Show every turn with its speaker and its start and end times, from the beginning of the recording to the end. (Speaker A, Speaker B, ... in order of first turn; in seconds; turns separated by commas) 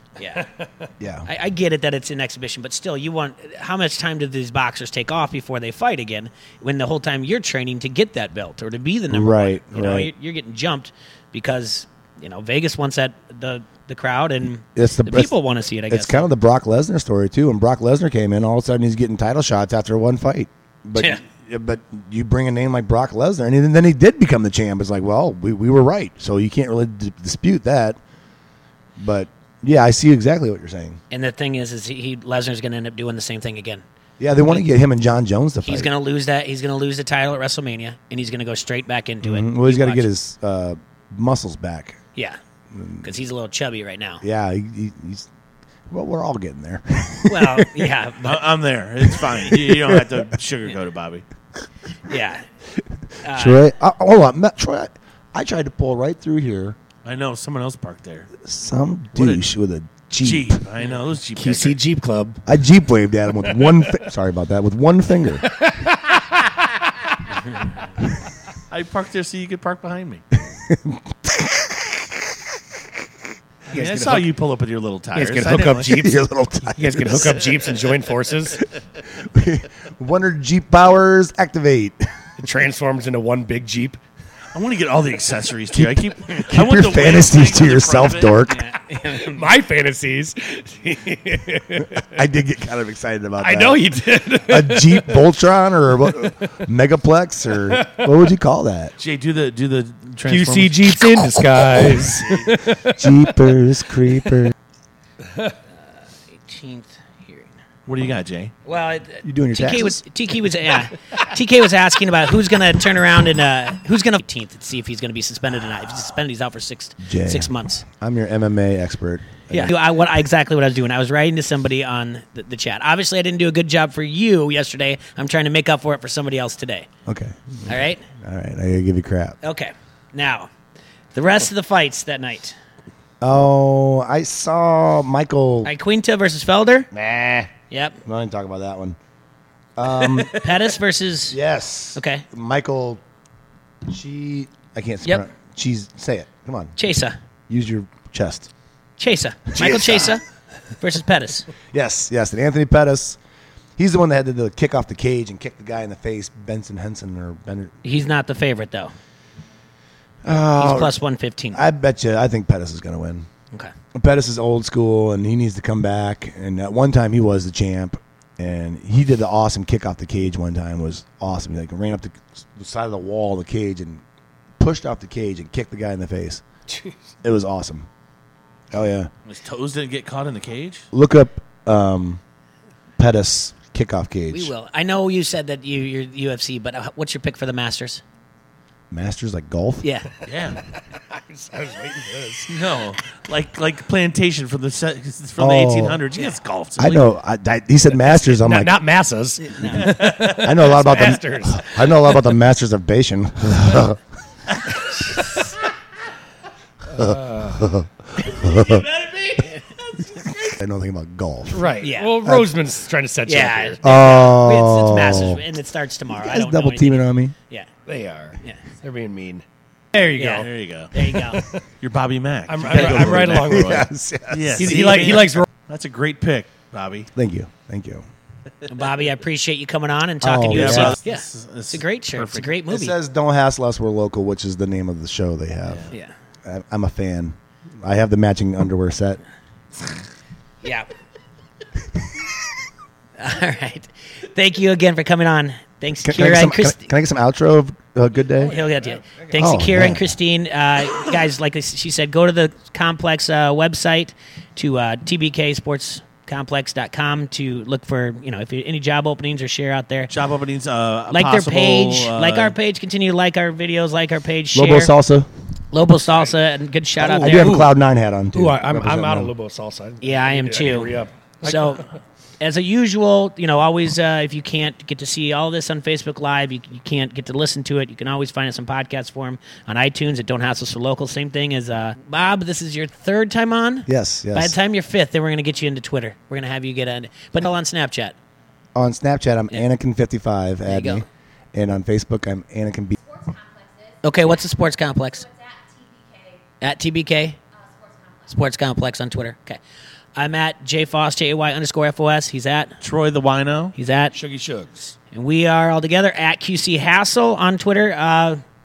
Speaker A: 0.2-0.5, Speaker B: 0.5-0.8, Speaker C: 1.0-1.3, Speaker A: 1.2-16.3, Speaker C: 9.1-10.1, Speaker C: 14.8-15.3, Speaker C: 15.9-28.0, Speaker A: 20.9-21.2, Speaker C: 29.0-31.0, Speaker A: 31.1-33.8, Speaker C: 34.2-35.9, Speaker A: 35.6-40.1, Speaker C: 39.2-42.0, Speaker C: 42.7-43.1, Speaker A: 43.0-44.2, Speaker C: 44.2-45.3, Speaker C: 45.9-47.9, Speaker A: 47.3-48.4, Speaker D: 48.2-51.2, Speaker C: 49.1-50.2, Speaker A: 52.1-52.5, Speaker C: 52.8-56.8, Speaker A: 53.2-53.6, Speaker D: 57.0-58.3, Speaker C: 58.4-60.6, Speaker D: 59.1-59.4, Speaker D: 60.2-61.8, Speaker B: 61.4-62.4, Speaker C: 62.5-65.5, Speaker B: 65.4-66.6, Speaker D: 68.7-70.2, Speaker C: 70.5-72.3, Speaker B: 73.7-74.3, Speaker D: 73.7-76.0, Speaker B: 75.1-78.6, Speaker C: 75.9-77.5, Speaker C: 79.1-82.1, Speaker B: 82.4-84.0, Speaker D: 84.5-88.5, Speaker C: 85.7-88.7, Speaker A: 88.5-89.4, Speaker B: 88.9-92.0, Speaker C: 92.0-98.9, Speaker B: 93.4-95.2, Speaker B: 97.5-98.0, Speaker D: 99.0-101.1, Speaker B: 100.2-103.6, Speaker C: 103.0-104.5, Speaker B: 105.2-105.5, Speaker A: 106.3-107.5, Speaker D: 107.9-108.5, Speaker A: 108.6-117.8, Speaker C: 109.2-110.0, Speaker C: 117.0-119.7, Speaker A: 119.5-126.9, Speaker C: 127.1-129.3, Speaker A: 127.7-128.0, Speaker A: 129.4-130.5, Speaker A: 131.1-132.6, Speaker C: 133.2-135.7, Speaker A: 135.6-136.9, Speaker C: 136.9-137.5, Speaker A: 137.7-138.0, Speaker C: 138.0-139.0, Speaker C: 139.8-140.5, Speaker A: 139.8-141.4, Speaker C: 141.3-143.0, Speaker A: 141.9-142.2, Speaker C: 143.9-146.8, Speaker A: 146.8-147.2, Speaker C: 147.5-148.5, Speaker A: 149.0-150.2, Speaker C: 149.5-150.2, Speaker A: 150.8-151.5, Speaker C: 151.7-153.2, Speaker C: 153.8-157.7, Speaker A: 157.8-158.9, Speaker C: 160.2-161.0, Speaker A: 160.6-161.6, Speaker C: 161.5-163.3, Speaker C: 163.9-174.0, Speaker C: 174.6-176.4, Speaker B: 176.7-176.9, Speaker C: 177.2-177.9, Speaker C: 178.7-179.1, Speaker D: 179.2-180.9, Speaker C: 180.9-182.2, Speaker C: 183.0-184.5, Speaker A: 184.3-188.0, Speaker C: 188.9-189.9, Speaker A: 189.8-190.1, Speaker D: 190.2-190.6, Speaker B: 190.9-192.6, Speaker D: 192.5-197.1, Speaker C: 195.4-196.0, Speaker C: 196.8-198.8, Speaker B: 198.1-201.9, Speaker A: 199.4-199.9, Speaker D: 199.7-200.8, Speaker C: 200.3-204.0, Speaker B: 206.9-207.7, Speaker C: 207.0-208.8, Speaker D: 208.4-210.3, Speaker C: 210.3-212.5, Speaker B: 211.5-213.8, Speaker A: 211.8-212.2, Speaker A: 213.2-217.7, Speaker C: 213.8-215.4, Speaker C: 216.1-217.3, Speaker B: 217.8-220.5, Speaker A: 220.1-221.5, Speaker D: 220.3-220.9, Speaker B: 221.0-221.6, Speaker D: 221.8-227.1, Speaker B: 222.5-223.9, Speaker C: 222.7-225.2, Speaker B: 224.6-225.4, Speaker C: 227.1-228.0, Speaker A: 228.7-232.9, Speaker C: 230.2-231.0, Speaker D: 230.5-232.5, Speaker C: 232.7-235.9, Speaker C: 236.4-239.2, Speaker A: 240.6-240.9, Speaker A: 243.2-246.9, Speaker C: 246.0-248.6, Speaker A: 248.4-260.1, Speaker B: 248.5-249.3, Speaker C: 249.3-250.1, Speaker D: 260.1-262.5, Speaker A: 261.1-264.9, Speaker C: 264.5-265.3, Speaker A: 265.7-267.7, Speaker B: 267.0-267.7, Speaker C: 267.1-269.3, Speaker B: 268.3-271.6, Speaker A: 270.0-271.9, Speaker A: 272.4-288.1, Speaker C: 283.9-284.6, Speaker C: 288.7-292.9, Speaker A: 290.6-291.0, Speaker E: 292.9-296.4, Speaker A: 294.0-295.2, Speaker A: 296.6-297.4, Speaker E: 297.5-298.4, Speaker A: 298.3-299.6, Speaker A: 300.1-302.8, Speaker D: 302.8-303.7, Speaker A: 303.8-304.1, Speaker B: 304.1-304.9, Speaker A: 305.1-308.4